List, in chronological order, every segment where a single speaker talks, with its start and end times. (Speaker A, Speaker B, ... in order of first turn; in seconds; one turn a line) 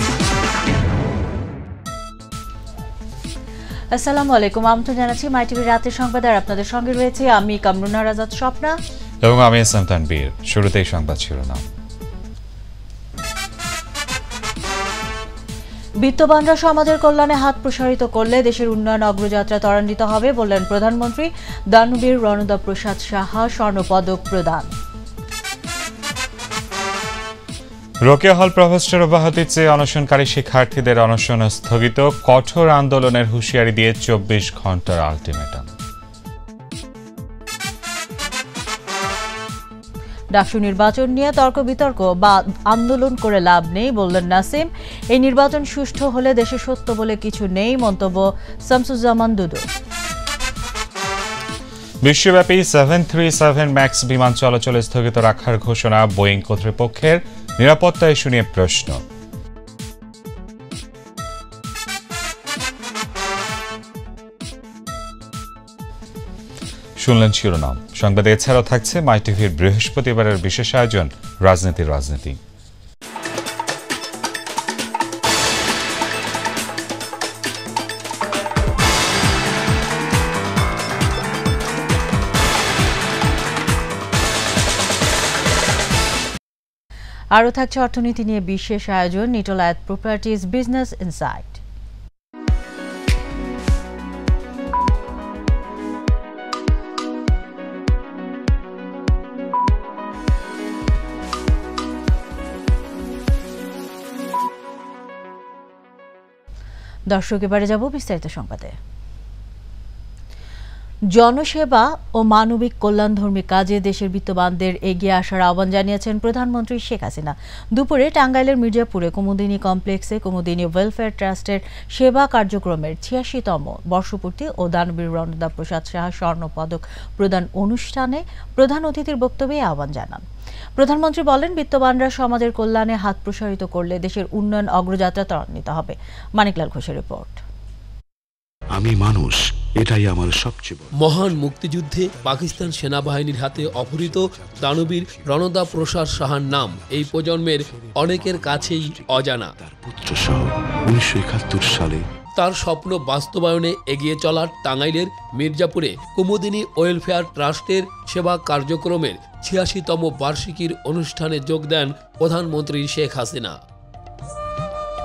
Speaker A: 3.9-8.8
Speaker B: 9.2-11.7
Speaker A: 16.0-24.7
Speaker B: 28.0-35.6
Speaker A: 40.3-49.7
Speaker B: 52.0-59.0
Speaker B: 67.0-72.4
Speaker A: 87.3-91.6
Speaker A: 107.1-108.7
Speaker A: 111.1-130.2
Speaker A: 130.8-137.4
Speaker C: 138.8-141.4
Speaker D: 140.9-149.5
Speaker C: 142.3-152.0
Speaker D: 152.3-163.6